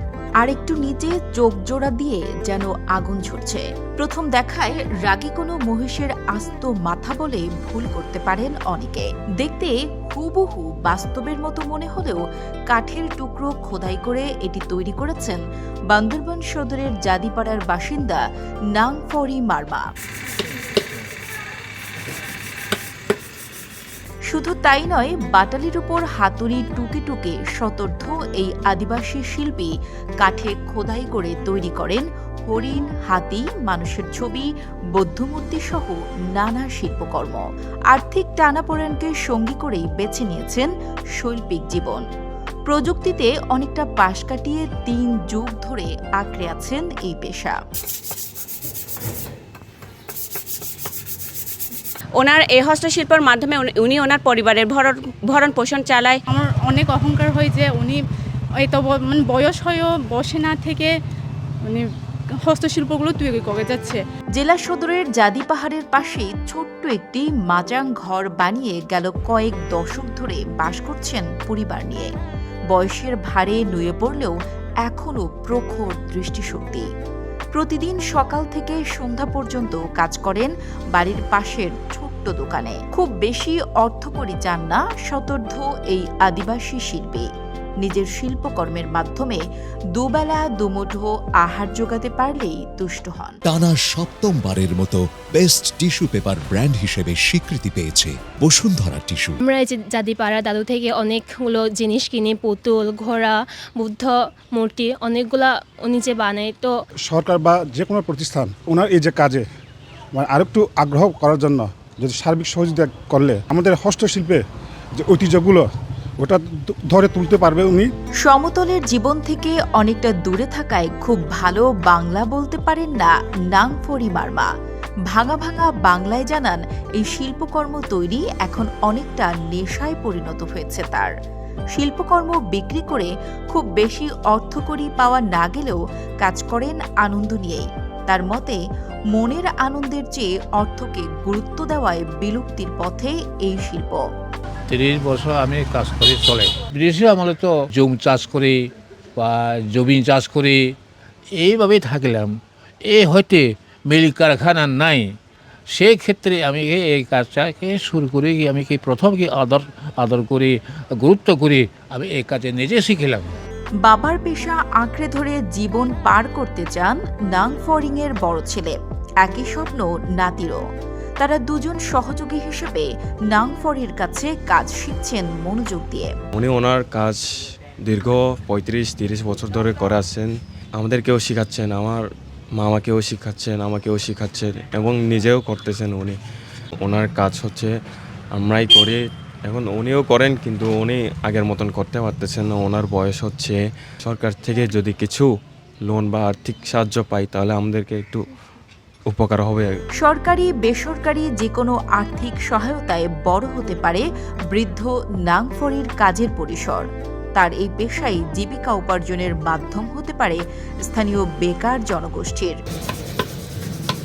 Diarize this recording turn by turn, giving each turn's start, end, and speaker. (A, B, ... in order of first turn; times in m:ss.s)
0:00.4-0:18.2 A
0:18.8-0:19.9 A
0:24.3-0:40.7 A
0:41.2-0:42.0 A
0:42.7-0:47.6 A
0:52.2-0:56.2 B
0:56.3-0:58.0 C
0:58.6-1:01.0 C
1:01.6-1:04.0 C
1:04.4-1:12.1 A
1:12.7-1:16.9 A
1:17.6-1:27.3 A
1:27.8-1:29.4 A
1:30.0-1:33.4 A
1:33.5-1:39.4 D
1:39.4-1:46.7 E
1:47.1-1:49.4 F
1:50.2-1:54.4 F
1:55.0-1:55.7 F
1:56.2-1:57.9 F
1:58.2-2:04.5 A
2:05.1-2:11.1 A
2:11.8-2:18.6 A
2:19.1-2:24.0 A
2:24.7-2:30.8 G
2:31.4-2:35.2 G
2:35.7-2:43.4 G
2:43.8-2:50.7 A
2:51.2-2:56.1 A
2:56.4-2:57.2 H
2:57.9-3:02.0 H
3:02.6-3:06.2 H
3:06.8-3:07.7 H
3:08.4-3:15.3 H
3:15.9-3:18.2 H
3:19.1-3:19.7 H
3:20.0-3:26.8 A
3:27.4-3:32.6 A